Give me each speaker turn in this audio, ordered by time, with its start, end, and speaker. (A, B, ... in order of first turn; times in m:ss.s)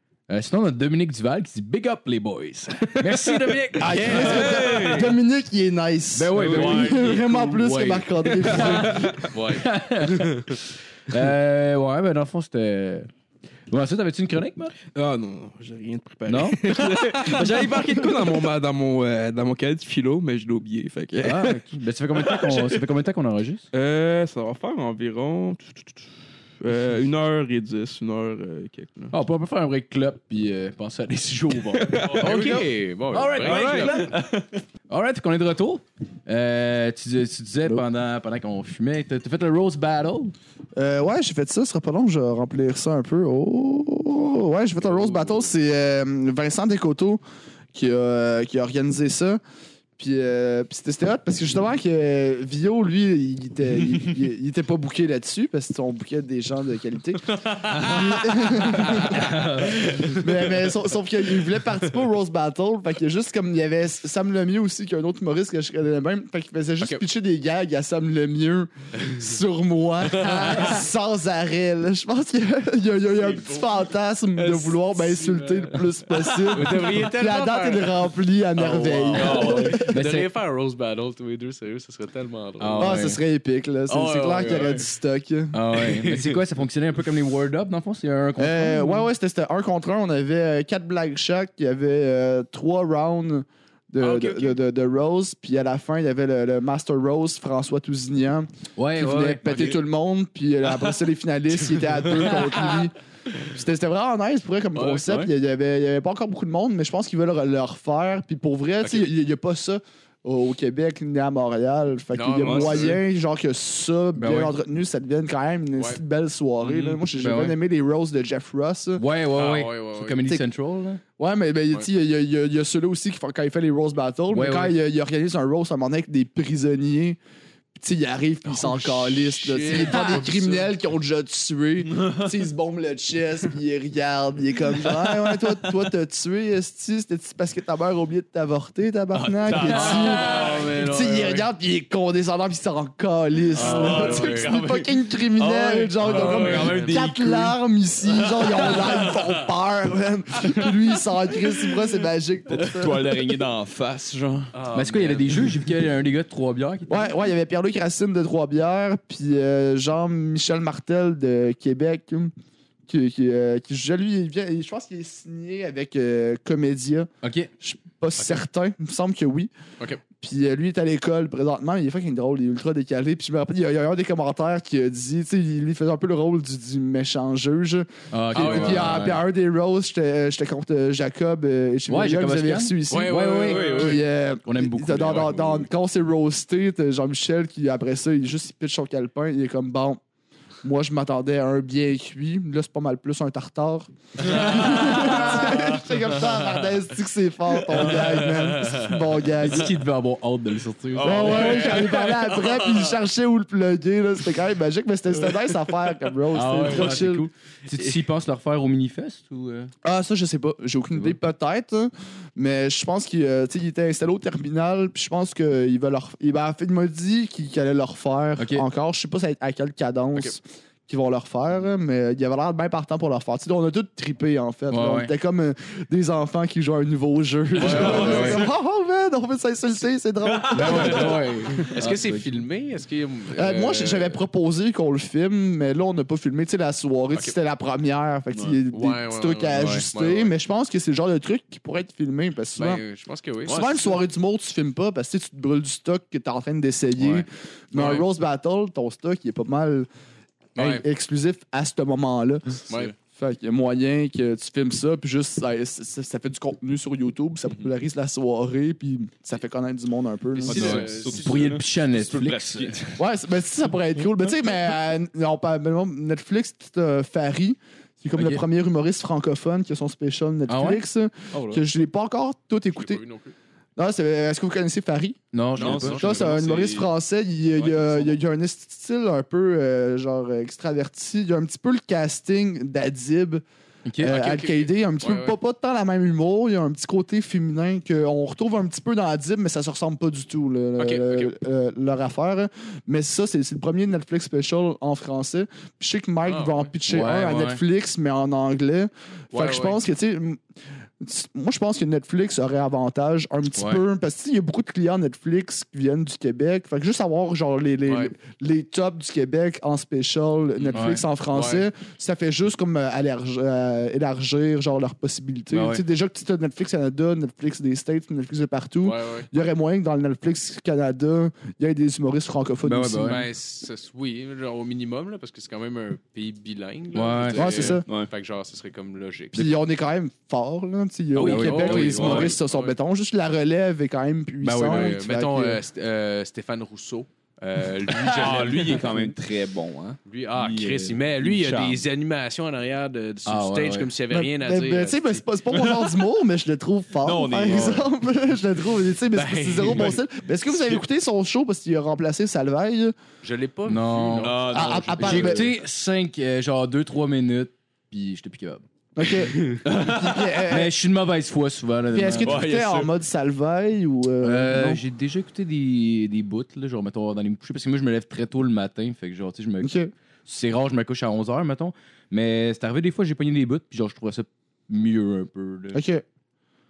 0:00.3-0:04.6 A
0:03.8-0:09.2 B
0:03.9-0:05.0 C
0:04.1-0:05.1 D
0:04.6-0:05.0 E
0:06.1-0:10.6 A
0:06.3-0:06.8 E
0:06.5-0:07.2 D
0:08.4-0:09.3 E
0:09.3-0:10.6 C
0:11.1-0:13.1 A
0:13.7-0:14.7 A
0:14.9-0:21.6 E
0:16.3-0:18.1 A
0:21.2-0:23.6 A
0:23.7-0:26.1 E
0:26.6-0:29.1 E
0:29.1-0:34.1 A
0:31.7-0:32.3 E
0:32.1-0:32.5 D
0:32.1-0:34.0 C
0:33.4-0:33.9 E
0:33.6-0:34.5 D
0:34.9-0:40.3 A
0:40.8-0:47.2 B
0:44.9-0:45.4 C
0:47.7-0:49.4 B
0:50.0-1:19.9 B
0:57.5-0:59.1 C
0:59.1-0:59.8 A
0:59.8-1:00.2 C
1:10.0-1:10.8 C
1:13.2-1:13.6 D
1:14.3-1:23.0 C
1:19.2-1:19.6 D
1:19.2-1:20.3 A
1:22.6-1:23.2 A
1:22.8-1:25.5 B
1:23.9-1:24.8 C
1:25.5-1:29.0 A
1:25.8-1:26.4 C
1:28.4-1:42.9 B
1:34.0-1:34.6 C
1:38.8-1:39.4 A
1:42.1-1:42.7 C
1:43.5-1:59.0 B
1:44.7-1:45.2 C
1:48.8-1:49.1 C
1:52.1-1:53.0 C
1:52.4-1:52.9 E
1:54.2-1:54.5 A
1:55.8-1:56.0 C
1:56.6-1:56.9 C
1:57.2-1:57.6 A
1:59.0-2:01.0 A
1:59.3-2:00.3 C
2:01.2-2:07.2 B
2:04.3-2:04.8 A
2:07.7-2:33.2 B
2:08.5-2:10.7 C
2:11.9-2:12.3 D
2:19.1-2:20.7 D
2:19.5-2:21.5 C
2:23.5-2:24.6 C
2:23.5-2:27.5 D
2:26.0-2:27.0 C
2:28.1-2:28.9 D
2:28.4-2:29.0 C
2:32.5-2:34.5 D
2:34.5-2:35.5 C
2:34.7-2:37.1 A
2:36.9-2:42.3 B
2:42.9-2:47.1 B
2:47.2-2:47.5 A
2:47.6-2:49.5 B
2:48.2-2:48.4 C
2:50.2-3:10.0 B
2:58.1-2:59.2 A
2:58.3-2:59.0 C
3:01.9-3:03.8 A
3:02.9-3:04.0 C
3:03.5-3:04.0 D
3:04.4-3:05.7 A
3:10.6-3:19.8 B
3:14.2-3:16.5 C
3:17.7-3:19.1 C
3:19.4-3:21.7 A
3:20.9-3:22.0 D
3:21.0-3:27.3 B
3:21.0-3:22.8 C
3:26.3-3:29.7 A
3:26.6-3:27.0 C
3:29.8-3:51.1 B
3:30.9-3:31.2 A
3:38.4-3:38.6 A
3:44.7-3:45.1 A
3:47.6-3:48.5 C
3:47.6-3:48.4 D
3:47.6-3:48.4 A
3:50.2-3:51.1 D
3:50.5-3:52.3 A
3:51.7-3:54.2 C
3:53.3-4:02.8 B
3:58.3-3:58.6 D
3:58.7-4:00.3 C
3:59.6-3:59.8 A
4:02.6-4:04.0 C
4:03.4-4:09.9 B
4:07.7-4:08.1 C
4:10.6-4:10.8 C
4:10.6-4:20.8 B
4:12.7-4:12.9 C
4:20.4-4:21.6 C
4:20.4-4:22.9 D
4:20.5-4:22.9 A
4:23.0-4:33.0 B
4:28.2-4:28.4 A
4:30.5-4:30.8 A
4:31.3-4:31.6 D
4:32.7-4:33.3 C
4:33.8-4:35.2 B
4:35.3-4:36.0 A
4:35.6-4:36.9 D
4:35.6-4:36.2 C
4:35.8-4:43.4 B
4:37.6-4:38.2 C
4:43.8-4:44.2 A
4:44.0-5:00.4 B
4:44.0-4:45.3 C
4:50.8-4:51.3 C
4:56.2-4:56.7 C
4:56.8-4:57.6 A
4:59.3-4:59.8 C
5:01.0-5:23.2 B
5:03.6-5:03.8 A
5:07.8-5:08.1 C
5:10.7-5:11.0 A
5:11.3-5:11.7 C
5:15.5-5:15.8 A
5:18.8-5:19.3 C
5:22.6-5:23.2 A
5:23.0-5:29.5 C
5:26.9-5:27.8 A
5:27.4-5:27.8 B
5:29.3-5:35.6 B
5:31.2-5:32.3 A
5:31.2-5:32.8 C
5:31.6-5:32.3 D
5:34.4-5:34.9 A
5:34.5-5:39.1 C
5:38.1-5:41.8 D
5:40.0-5:45.2 C
5:43.2-5:43.9 A
5:44.1-5:52.9 B
5:45.5-5:45.9 D
5:47.0-5:47.9 D
5:49.1-5:50.0 C
5:53.2-5:55.4 C
5:53.6-5:54.4 A
5:54.2-5:55.3 D
5:54.5-5:55.5 B
5:55.0-5:58.6 A
5:59.0-6:00.7 B
5:59.6-6:00.2 D
6:00.5-6:02.4 A
6:01.9-6:04.8 B
6:02.2-6:02.9 D
6:04.2-6:09.7 A
6:09.6-6:09.9 B
6:10.2-6:15.8 A
6:15.7-6:16.0 B